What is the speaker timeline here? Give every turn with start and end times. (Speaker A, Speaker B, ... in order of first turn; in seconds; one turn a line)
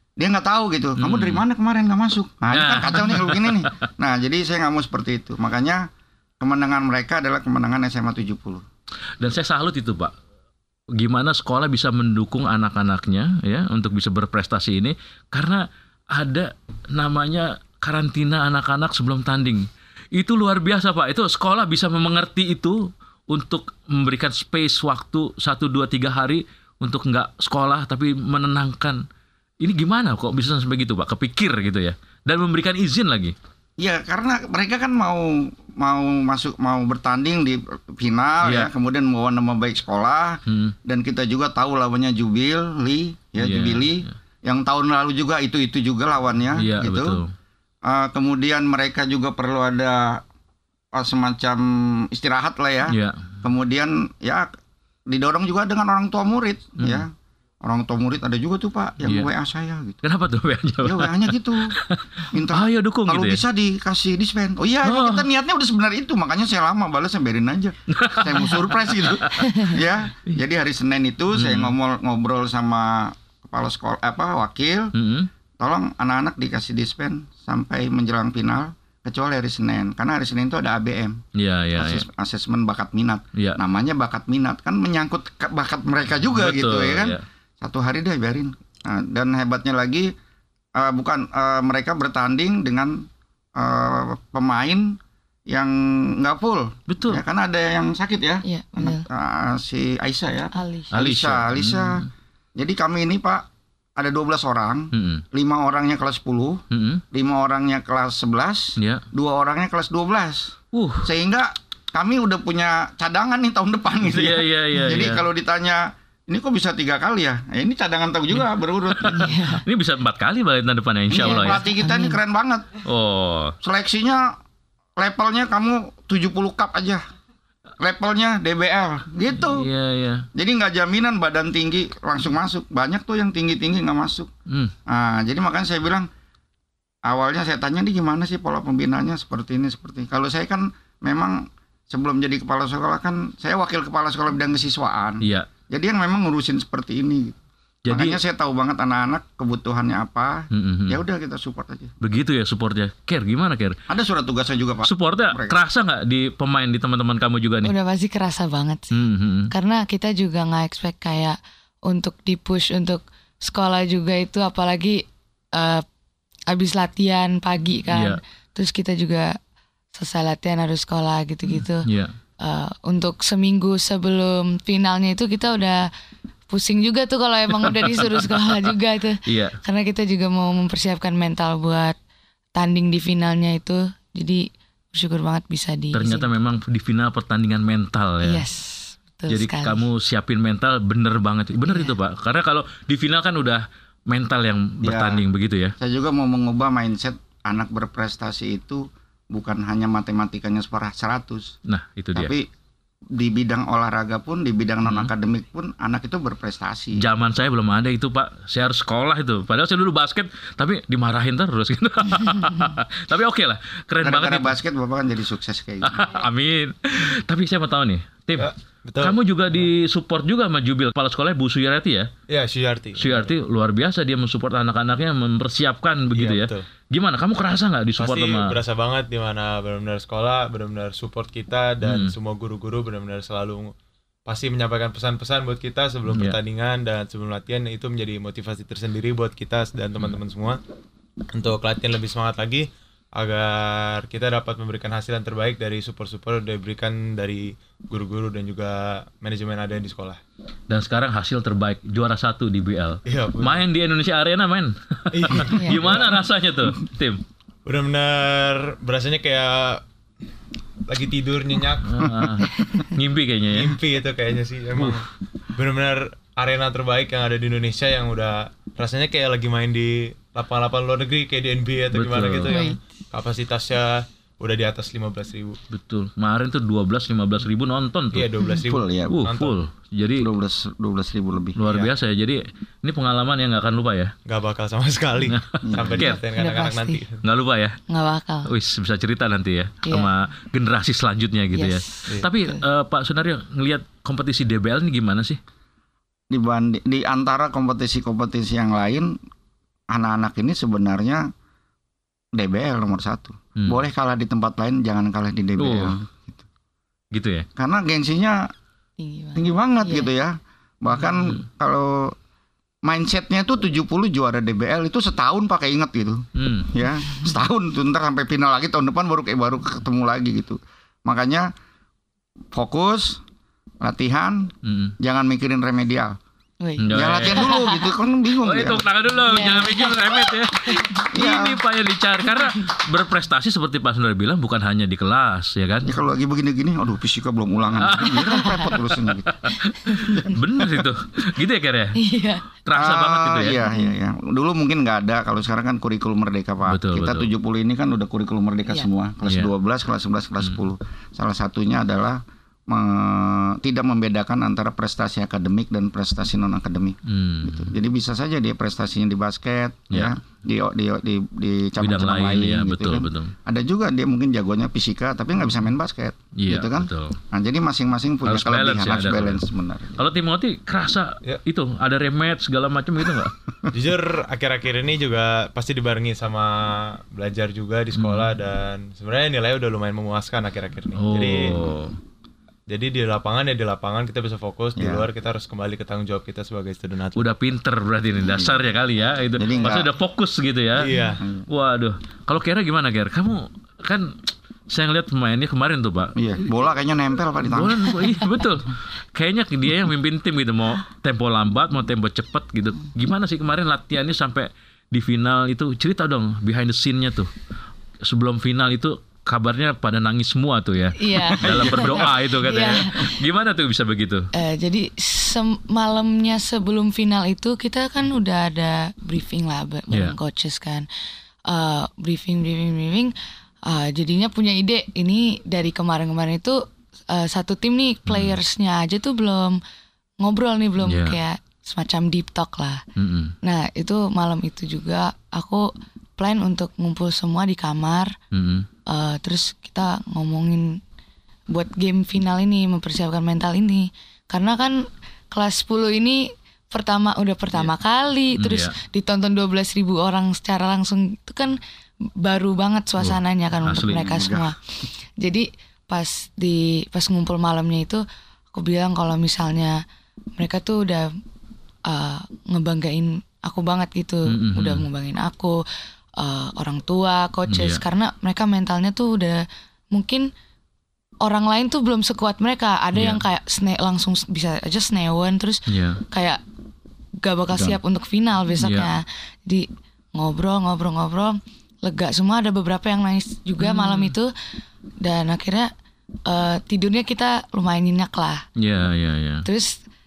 Speaker A: 0.2-5.8
Speaker B: 1.0-1.4
Speaker B: 2.5-3.7
Speaker A: 6.4-8.6
Speaker B: 9.2-10.1
Speaker B: 11.0-29.0
Speaker B: 29.6-33.3
Speaker A: 33.8-47.2
Speaker B: 38.5-38.7
Speaker B: 40.5-40.8
Speaker B: 43.4-44.0
Speaker B: 46.6-47.3
Speaker A: 47.9-50.2
Speaker A: 50.9-54.5
Speaker B: 52.9-53.3
Speaker A: 55.1-57.1
Speaker A: 57.6-60.0
Speaker B: 59.0-59.3
Speaker B: 60.0-63.4
Speaker A: 60.8-61.7
Speaker A: 62.3-74.9
Speaker B: 64.8-65.2
Speaker B: 67.9-69.7
Speaker B: 71.3-71.7
Speaker B: 74.9-75.3
Speaker A: 75.6-81.2
Speaker B: 81.3-82.1
Speaker A: 81.8-90.1
Speaker B: 86.4-87.2
Speaker A: 90.8-95.0
Speaker A: 95.5-102.0
Speaker B: 96.9-97.2
Speaker C: 98.5-99.1
Speaker C: 100.5-100.9
Speaker B: 100.9-102.1
Speaker A: 102.6-103.5
Speaker A: 104.0-119.3
Speaker B: 104.9-105.2
Speaker B: 106.7-107.0
Speaker B: 110.7-111.1
Speaker B: 114.0-115.2
Speaker B: 119.0-121.7
Speaker C: 119.1-119.6
Speaker A: 121.1-122.8
Speaker C: 121.2-122.2
Speaker B: 122.8-123.5
Speaker A: 123.6-124.4
Speaker A: 125.0-127.0
Speaker A: 127.8-129.7
Speaker B: 129.4-130.3
Speaker A: 130.3-134.3
Speaker B: 134.5-134.7
Speaker A: 134.9-136.1
Speaker A: 137.1-151.9
Speaker B: 145.2-145.5
Speaker B: 147.8-148.2
Speaker B: 150.5-151.0
Speaker B: 152.0-153.8
Speaker A: 153.9-155.6
Speaker B: 154.8-157.7
Speaker C: 157.6-158.9
Speaker B: 158.9-159.5
Speaker C: 159.5-165.0
Speaker C: 165.5-165.8
Speaker C: 166.5-169.4
Speaker B: 167.9-168.2
Speaker C: 169.9-171.9
Speaker B: 171.9-172.1
Speaker C: 172.4-175.9
Speaker C: 176.5-182.0
Speaker B: 177.6-178.5
Speaker B: 179.3-179.6
Speaker C: 182.6-186.3
Speaker B: 185.9-188.4
Speaker C: 188.2-189.8
Speaker B: 189.3-195.8
Speaker C: 191.6-191.9
Speaker A: 194.8-195.2
Speaker A: 195.8-201.6
Speaker B: 201.7-202.3
Speaker A: 202.2-202.5
Speaker A: 203.2-207.0
Speaker B: 204.8-205.1
Speaker B: 207.0-214.6
Speaker A: 214.0-216.2
Speaker B: 215.8-222.1
Speaker D: 218.4-219.7
Speaker D: 222.3-223.3
Speaker B: 223.0-228.6
Speaker D: 226.2-226.7
Speaker D: 228.0-233.7
Speaker B: 231.8-232.1
Speaker D: 234.3-240.6
Speaker B: 236.1-236.4
Speaker D: 241.3-250.2
Speaker B: 250.7-257.2
Speaker D: 253.1-253.7
Speaker D: 255.1-256.2
Speaker C: 255.5-255.8
Speaker D: 257.7-259.8
Speaker D: 260.9-262.1
Speaker B: 261.9-263.8
Speaker D: 263.5-275.6
Speaker B: 271.9-272.6
Speaker C: 272.5-272.8
Speaker B: 275.7-278.3
Speaker D: 278.1-279.5
Speaker A: 278.7-279.2
Speaker B: 279.1-280.3
Speaker A: 280.2-281.6
Speaker B: 281.6-284.1
Speaker D: 284.3-287.2
Speaker B: 285.3-286.2
Speaker A: 285.6-286.0
Speaker C: 286.1-287.0
Speaker B: 287.2-287.8
Speaker C: 287.9-288.5
Speaker B: 288.5-295.4
Speaker C: 289.9-290.1
Speaker C: 291.5-292.6
Speaker A: 296.3-299.2
Speaker A: 299.9-301.3
Speaker A: 302.4-306.4
Speaker B: 305.6-305.9
Speaker B: 307.1-307.5
Speaker A: 307.6-308.5
Speaker C: 309.0-310.1
Speaker A: 309.4-312.1
Speaker A: 312.8-321.5
Speaker B: 316.4-316.7
Speaker A: 322.5-323.2
Speaker A: 323.8-326.2
Speaker B: 324.6-324.9
Speaker C: 326.6-327.9
Speaker B: 326.8-327.5
Speaker A: 326.9-328.8
Speaker B: 328.4-336.0
Speaker C: 329.2-331.0
Speaker A: 331.1-331.6
Speaker A: 335.9-339.4
Speaker B: 337.8-342.0
Speaker A: 339.9-340.8
Speaker C: 342.0-342.4
Speaker B: 342.6-343.6
Speaker A: 342.7-370.0
Speaker B: 346.7-347.3
Speaker B: 349.3-349.5
Speaker B: 357.1-357.7
Speaker B: 361.8-363.3
Speaker B: 366.4-367.2
Speaker B: 368.2-369.4
Speaker B: 370.0-373.4
Speaker D: 373.7-381.7
Speaker B: 377.9-378.3
Speaker B: 381.0-381.9
Speaker D: 382.7-387.2
Speaker A: 384.8-385.1
Speaker B: 387.2-396.2
Speaker A: 388.3-388.6
Speaker A: 389.4-389.9
Speaker D: 390.8-391.2
Speaker A: 391.2-391.5
Speaker A: 396.2-398.1
Speaker B: 397.5-407.3
Speaker B: 408.1-414.3
Speaker C: 411.0-413.2
Speaker A: 411.4-412.2
Speaker C: 414.3-420.9
Speaker C: 421.5-423.1
Speaker C: 423.7-429.6
Speaker B: 428.1-428.4
Speaker C: 430.2-432.8
Speaker B: 430.9-431.2
Speaker B: 433.0-433.4
Speaker C: 433.4-438.1
Speaker B: 438.3-438.7
Speaker C: 438.9-440.8
Speaker C: 441.5-451.6
Speaker B: 448.4-448.7
Speaker C: 452.2-454.6
Speaker B: 453.0-454.3
Speaker A: 453.9-454.5
Speaker C: 455.2-459.8
Speaker C: 460.4-461.1
Speaker C: 461.9-465.6
Speaker B: 464.3-464.9
Speaker C: 466.2-470.3
Speaker B: 467.5-467.8
Speaker C: 471.2-476.4
Speaker B: 472.9-473.2
Speaker B: 475.7-476.0
Speaker C: 477.2-484.3
Speaker B: 478.6-478.9
Speaker B: 483.6-484.1
Speaker C: 485.0-485.7
Speaker C: 486.3-488.4
Speaker B: 488.6-489.5
Speaker C: 489.4-489.8